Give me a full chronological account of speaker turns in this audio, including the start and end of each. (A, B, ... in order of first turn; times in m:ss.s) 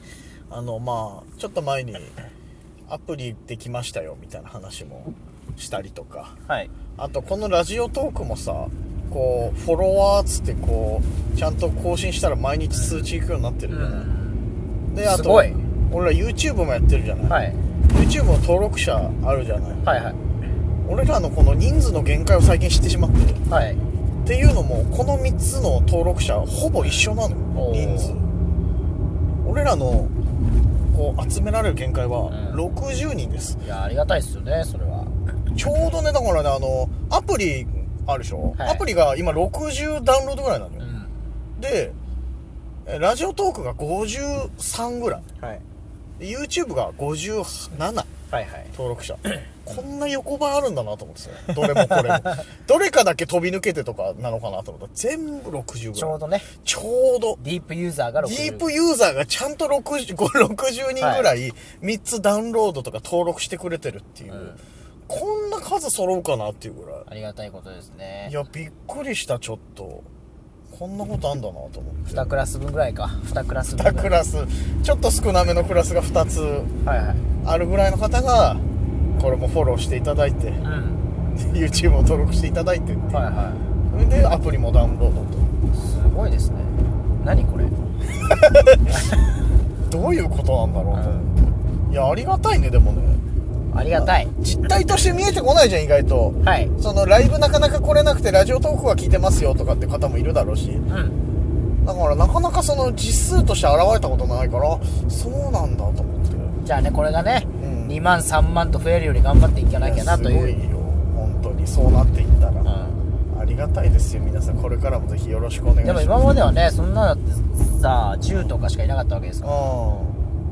0:00.5-0:02.1 A
0:02.9-0:06.4 A
0:07.0-0:14.1 A
0:12.7-0:13.0 B
0:13.7-0:14.4 B
0:14.9-0:17.4 A
0:15.0-0:15.6 B
0:17.3-0:17.6 B
0:17.9-0:19.8 A
0:19.8-0:20.2 B
0:20.8-0:23.4 A
0:23.5-0:23.8 B
0:24.2-0:28.2 A
0:27.5-0:28.2 B
0:29.4-0:30.1 A
0:30.9-0:33.6 A
0:32.3-0:32.6 B
0:33.6-0:35.1 B
0:35.6-0:40.9 A
0:38.6-0:38.8 B
0:40.8-0:41.1 B
0:41.6-0:42.0 A
0:42.8-0:45.3 A
0:46.2-0:48.1 A
0:48.3-0:48.7 B
0:48.7-0:57.4 A
0:49.3-0:49.8 B
0:51.8-0:52.4 B
0:55.9-0:56.5 B
0:57.4-0:58.7 B
0:58.2-1:07.0 A
1:01.0-1:01.3 B
1:04.3-1:04.6 B
1:07.1-1:08.3 B
1:08.2-1:10.1 A
1:10.7-1:12.3 A
1:12.1-1:14.2 B
1:13.7-1:16.7 A
1:16.8-1:17.2 B
1:17.4-1:18.6 A
1:19.2-1:20.6 A
1:20.6-1:21.0 B
1:21.3-1:23.2 A
1:23.1-1:23.6 B
1:23.9-1:25.5 A
1:25.7-1:27.7 B
1:28.3-1:29.0 A
1:29.9-1:31.3 A
1:30.9-1:31.3 B
1:31.9-1:33.2 A
1:33.7-1:34.3 B
1:34.0-1:40.8 A
1:36.4-1:36.7 B
1:40.9-1:41.2 B
1:41.8-1:46.6 A
1:46.6-1:50.6 B
1:47.6-1:48.0 A
1:49.8-1:52.7 A
1:52.6-1:53.0 B
1:53.3-1:56.3 A
1:55.8-1:59.7 B
1:59.4-2:00.2 A